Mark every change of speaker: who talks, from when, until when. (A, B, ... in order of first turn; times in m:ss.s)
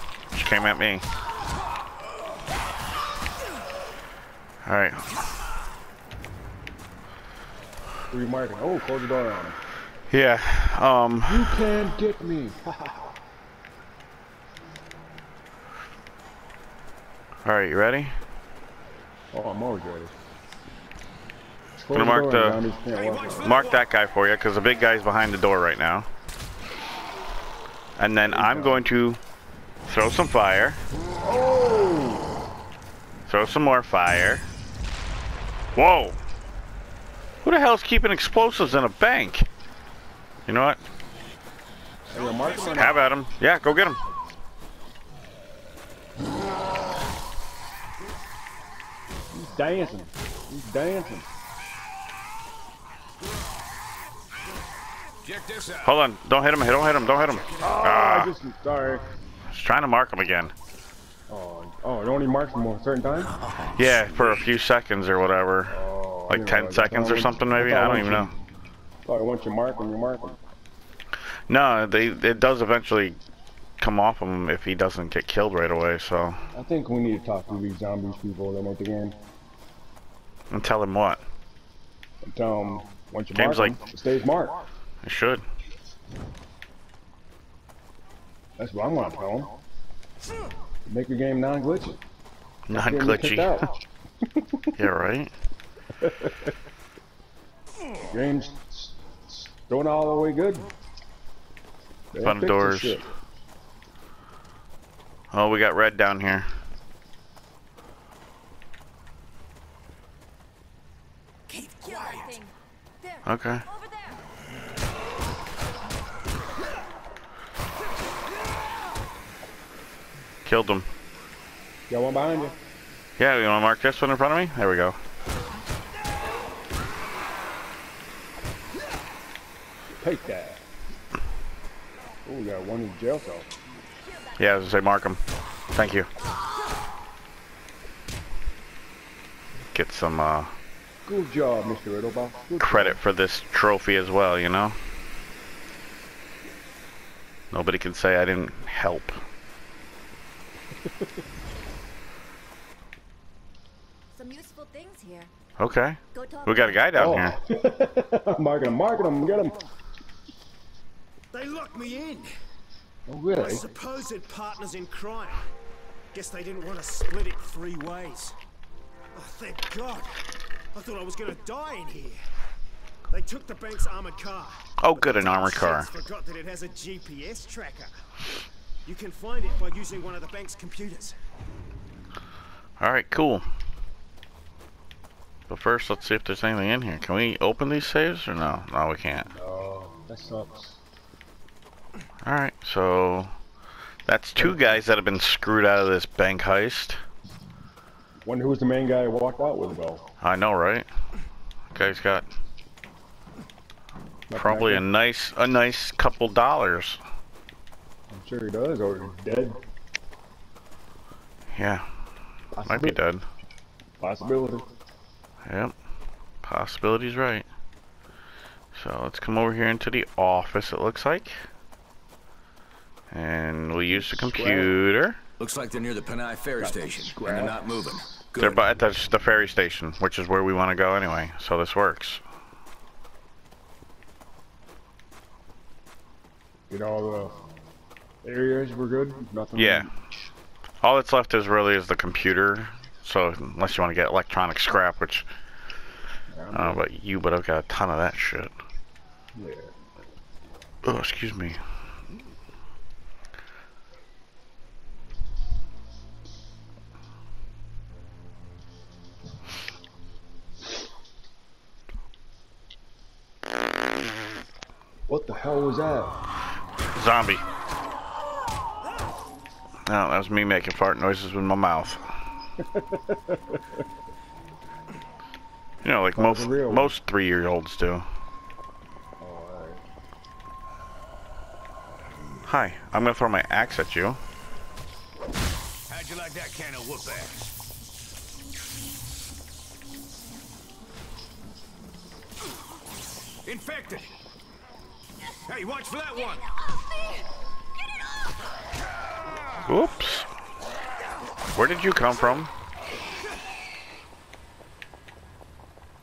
0:00.3-0:01.0 A
0:04.6-0:05.2 A
0:08.1-0:09.6 B
0:10.1-0:11.6 A
0:11.2-0:13.0 B
0:17.4-0:18.1 A
0:19.3-0:20.1 B
0:21.8-0:23.6 B
0:21.9-0:22.6 A
0:22.9-0:23.8 C
0:23.4-0:26.1 A
0:28.0-0:29.2 A
0:28.3-0:28.8 B
0:29.9-0:30.8 A
0:31.2-0:32.3 B
0:33.3-0:34.4 A
0:35.7-0:36.2 A
0:37.4-0:39.5 A
0:40.5-0:40.8 A
0:42.1-0:43.0 B
0:42.1-0:43.0 C
0:42.7-0:44.0 A
0:49.3-0:51.3 B
0:55.2-0:56.0 C
0:55.8-0:58.3 A
0:57.6-0:59.0 B
0:59.5-1:00.5 A
1:01.3-1:03.4 B
1:03.2-1:04.4 C
1:03.7-1:05.8 A
1:05.7-1:08.3 B
1:06.3-1:08.3 A
1:09.0-1:10.4 B
1:11.5-1:13.2 A
1:13.8-1:16.4 A
1:16.5-1:19.2 B
1:20.5-1:21.2 A
1:22.2-1:24.6 B
1:23.3-1:23.8 A
1:25.0-1:25.4 A
1:28.6-1:29.6 B
1:30.9-1:32.0 B
1:32.7-1:33.7 A
1:32.7-1:34.7 B
1:34.8-1:35.3 A
1:36.0-1:36.5 B
1:38.0-1:40.7 B
1:42.1-1:43.1 B
1:42.2-1:43.0 A
1:45.3-1:46.5 A
1:51.5-1:54.2 D
1:51.5-1:52.4 C
1:53.2-1:53.6 A
2:00.4-2:00.9 A
2:01.9-2:02.6 B
2:03.2-2:05.0 A
2:10.0-2:10.6 B
2:12.2-2:13.5 B
2:14.0-2:14.6 D
2:14.4-2:15.2 A
2:15.7-2:16.1 A
2:19.7-2:20.5 A
2:21.0-2:23.0 B
2:22.6-2:24.8 A
2:27.5-2:29.2 A
2:34.1-2:35.3 D
2:35.6-2:37.4 A
2:36.1-2:37.2 D
2:36.9-2:39.6 B
2:41.3-2:42.3 E
2:43.1-2:43.7 B
2:43.3-2:45.5 E
2:46.1-2:48.4 E
2:49.1-2:50.2 E
2:50.7-2:52.2 E
2:53.1-2:57.9 E
2:54.8-2:55.9 A
2:58.8-3:01.2 E
3:02.8-3:03.4 A
3:05.5-3:09.3 A
3:09.3-3:10.8 B
3:12.2-3:13.3 A
3:14.0-3:17.0 A
3:14.4-3:14.8 B
3:18.2-3:20.0 B
3:20.2-3:20.8 A
3:21.7-3:22.2 A
3:24.3-3:24.8 B
3:24.3-3:27.0 A
3:28.1-3:29.6 B
3:31.5-3:31.8 A
3:32.5-3:33.0 B
3:32.6-3:33.2 A
3:34.0-3:34.7 B
3:35.4-3:35.7 A
3:36.4-3:37.4 A
3:38.7-3:41.4 A
3:43.1-3:45.2 A
3:43.9-3:44.8 B
3:45.4-3:48.6 C
3:46.6-3:48.1 B
3:48.4-3:52.2 A
3:56.7-3:57.5 B
3:58.2-3:59.9 B
3:59.6-3:59.9 A
4:00.8-4:05.2 A
4:06.3-4:06.8 B
4:06.5-4:08.5 A
4:09.3-4:09.7 B
4:10.8-4:11.6 A
4:25.1-4:26.2 B
4:26.9-4:27.4 A
4:29.8-4:32.0 A
4:32.7-4:33.6 B
4:35.8-4:38.0 A
4:36.2-4:36.9 B
4:39.2-4:39.8 B
4:42.4-4:44.2 A
4:45.9-4:47.5 C
4:53.4-4:54.1 C
4:55.4-4:56.5 C
4:59.7-5:00.3 A
5:01.5-5:02.5 A